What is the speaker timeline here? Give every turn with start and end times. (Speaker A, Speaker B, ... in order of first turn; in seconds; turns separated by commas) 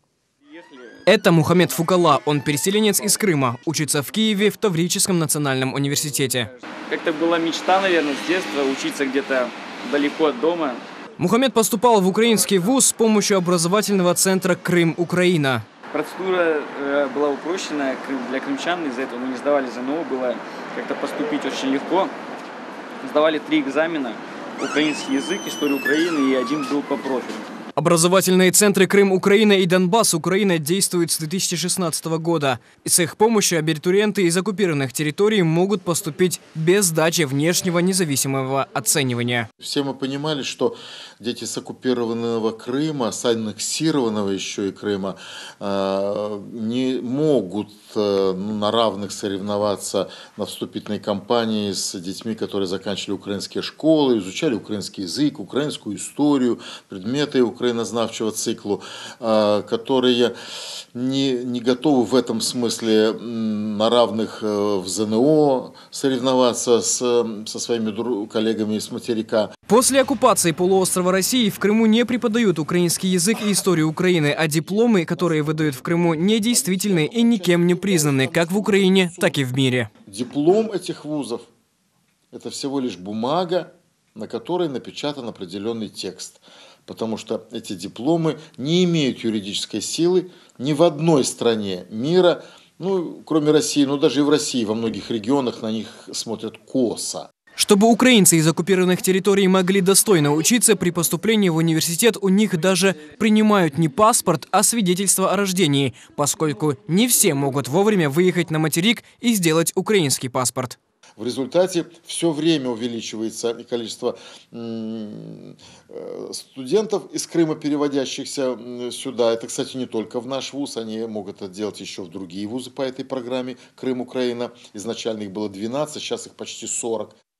Speaker A: 0.6-0.8, Speaker B: 1.1-6.5, Speaker A: 6.9-10.8, Speaker B: 11.2-15.6, Speaker A: 15.9-22.1, Speaker A: 23.0-27.5, Speaker B: 27.8-39.5, Speaker C: 39.6-60.3, Speaker C: 60.9-69.5, Speaker B: 69.7-79.9, Speaker C: 74.3-79.4, Speaker C: 80.1-81.5, Speaker C: 82.3-97.3, Speaker B: 97.6-110.8, Speaker C: 111.2-127.2